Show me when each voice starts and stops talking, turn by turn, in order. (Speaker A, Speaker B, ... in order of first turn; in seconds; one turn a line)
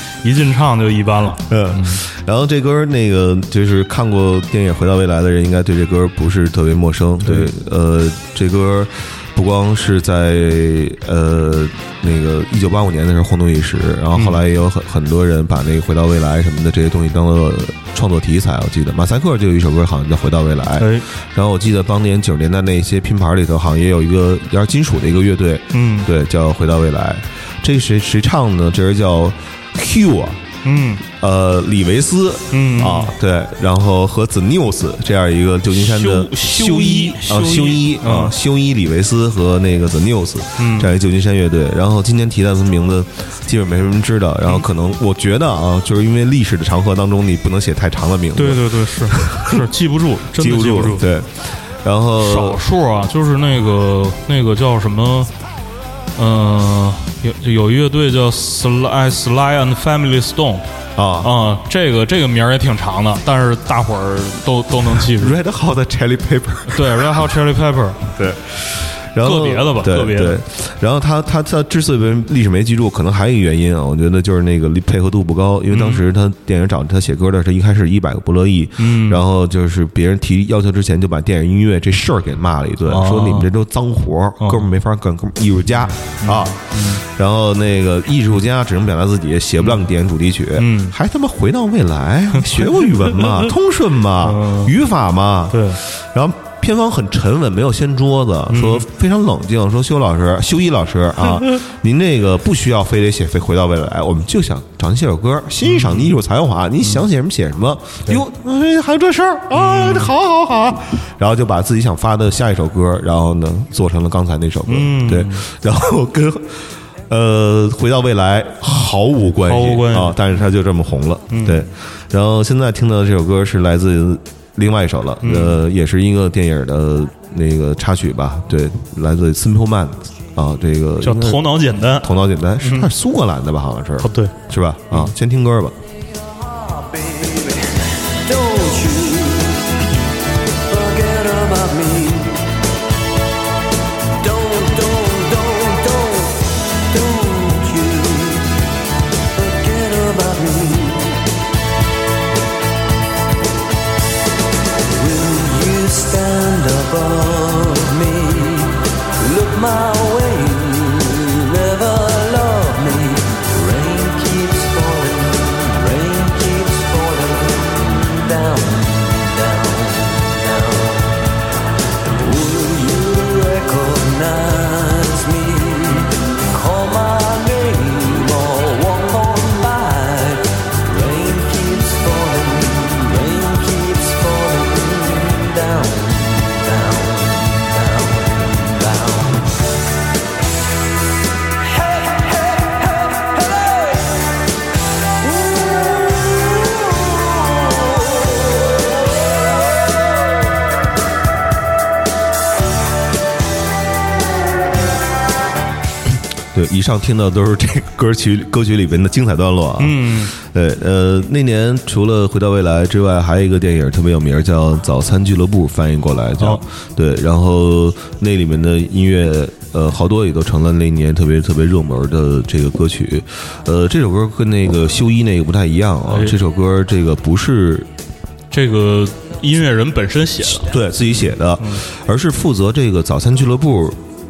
Speaker A: 0.2-2.0
Speaker B: 1.5-30.4
Speaker A: 7.2-7.5
Speaker A: 14.1-14.4
Speaker A: 20.8-21.1
Speaker A: 25.7-26.1
Speaker A: 30.6-31.0
Speaker B: 31.1-49.6
Speaker A: 32.5-33.1
Speaker A: 35.7-38.3
Speaker A: 40.6-40.9
Speaker A: 48.4-51.0
Speaker B: 50.3-52.6
Speaker A: 52.2-55.3
Speaker A: 56.1-60.6
Speaker B: 61.0-61.3
Speaker A: 61.2-65.4
Speaker B: 64.9-67.3
Speaker A: 66.7-68.0
Speaker B: 68.1-135.8
Speaker A: 69.2-70.4
Speaker A: 75.7-76.0
Speaker A: 78.8-79.2
Speaker A: 82.9-83.5
Speaker A: 84.4-84.7
Speaker A: 86.2-87.0
Speaker A: 89.6-89.9
Speaker A: 90.6-90.9
Speaker A: 92.3-93.4
Speaker A: 94.2-94.7
Speaker A: 95.5-95.8
Speaker A: 98.5-98.8
Speaker A: 105.6-106.1
Speaker A: 109.5-110.1
Speaker A: 114.7-115.4
Speaker A: 119.4-120.2
Speaker A: 121.3-121.7
Speaker A: 125.2-125.6
Speaker A: 131.0-132.9
Speaker A: 134.0-134.3
Speaker C: 136.4-139.7
Speaker C: 140.7-142.5
Speaker C: 144.2-148.5
Speaker C: 149.3-151.2
Speaker C: 154.8-171.2
Speaker C: 172.1-189.5
Speaker C: 191.8-194.1
Speaker C: 195.2-198.2
Speaker B: 206.5-227.9
Speaker A: 209.8-210.3
Speaker A: 226.1-226.4
Speaker A: 228.5-230.7
Speaker B: 230.5-234.0